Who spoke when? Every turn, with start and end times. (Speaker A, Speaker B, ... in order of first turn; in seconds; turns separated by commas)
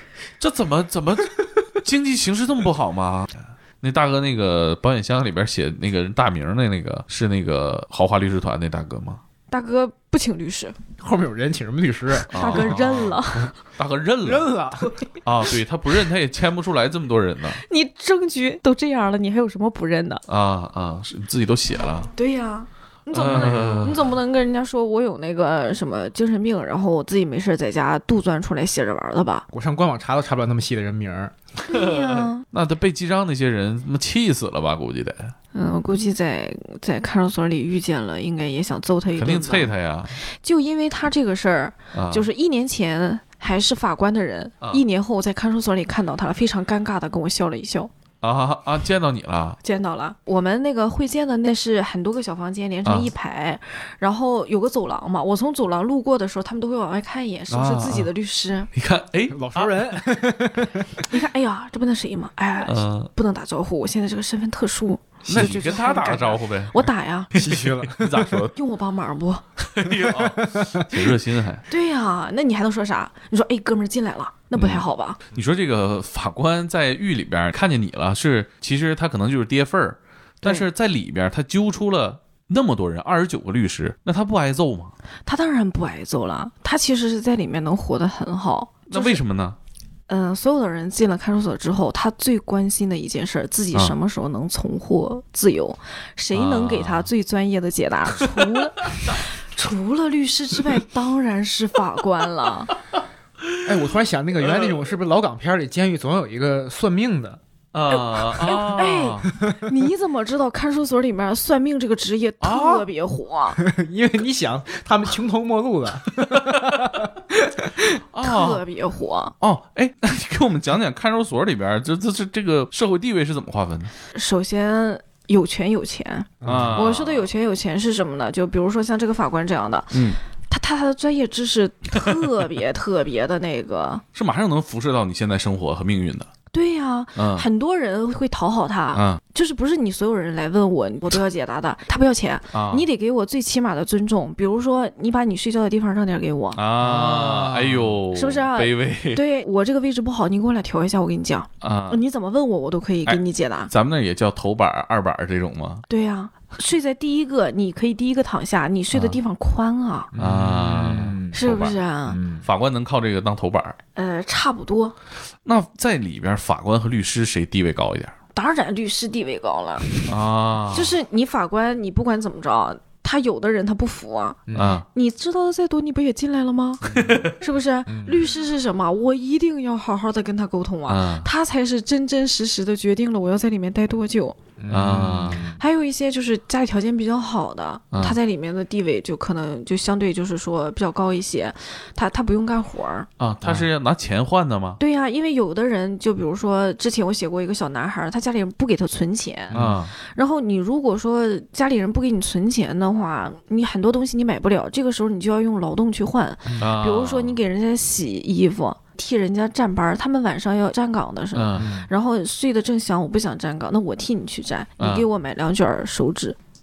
Speaker A: 0.4-9.2, Speaker B: 9.5-10.8, Speaker C: 11.0-12.8, Speaker A: 12.3-14.5, Speaker B: 12.3-13.5, Speaker C: 14.2-14.9, Speaker A: 15.2-17.6, Speaker B: 17.6-20.2, Speaker A: 20.3-22.1, Speaker B: 22.1-29.5, Speaker A: 23.1-24.1, Speaker C: 23.2-23.9, Speaker C: 29.5-31.3, Speaker B: 31.7-32.5, Speaker A: 31.7-35.4, Speaker B: 35.5-39.7, Speaker A: 39.2-40.2, Speaker B: 40.2-47.9, Speaker A: 41.9-42.3, Speaker A: 48.2-49.6, Speaker B: 49.6-58.7, Speaker A: 57.5-58.1, Speaker A: 58.7-60.0, Speaker C: 59.3-61.1, Speaker B: 61.1-67.3, Speaker A: 62.6-63.1, Speaker C: 65.2-66.2, Speaker A: 65.3-66.8, Speaker C: 67.3-68.4, Speaker A: 67.3-68.6, Speaker B: 68.5-69.5, Speaker A: 69.7-71.7, Speaker C: 70.0-70.9, Speaker B: 71.7-75.2, Speaker A: 74.6-84.9, Speaker B: 85.3-89.2, Speaker A: 88.9-89.6, Speaker B: 90.1-102.7, Speaker A: 96.3-97.1, Speaker C: 103.6-107.4, Speaker A: 104.4-104.8, Speaker A: 107.7-109.3, Speaker B: 107.9-113.6, Speaker A: 112.4-112.9, Speaker C: 113.6-118.0, Speaker A: 116.2-116.9, Speaker A: 118.1-118.6, Speaker B: 118.2-119.3, Speaker A: 119.4-123.9, Speaker B: 124.1-134.0, Speaker C: 126.4-126.9, Speaker A: 126.4-127.3, Speaker A: 129.9-130.2, Speaker A: 134.2-136.3, Speaker B: 136.5-146.6, Speaker A: 137.2-137.5, Speaker A: 138.9-139.2, Speaker A: 142.5-142.9, Speaker A: 146.6-149.2, Speaker C: 146.8-148.0, Speaker B: 148.1-153.7, Speaker A: 151.6-152.0, Speaker A: 153.1-155.8, Speaker B: 155.9-160.1, Speaker C: 160.1-161.4, Speaker A: 160.2-161.8, Speaker B: 161.3-162.2, Speaker C: 162.1-162.5, Speaker A: 162.4-163.8, Speaker B: 163.9-164.9, Speaker A: 165.4-168.1, Speaker B: 168.3-169.9, Speaker A: 170.0-171.0, Speaker B: 170.7-174.4, Speaker C: 174.5-174.8, Speaker A: 174.5-174.8, Speaker B: 174.9-176.9, Speaker C: 176.8-177.3, Speaker A: 176.8-177.3, Speaker B: 177.4-184.4, Speaker C: 177.9-178.3, Speaker A: 180.9-181.3, Speaker C: 184.6-185.6, Speaker A: 184.7-185.5, Speaker B: 185.5-193.1, Speaker A: 187.9-188.2, Speaker A: 193.2-194.8, Speaker C: 193.4-193.7, Speaker B: 194.8-216.4, Speaker C: 199.5-199.8, Speaker A: 199.5-199.9, Speaker C: 206.5-206.7, Speaker A: 206.6-207.4, Speaker A: 211.3-211.7, Speaker C: 211.6-211.9, Speaker A: 214.8-215.1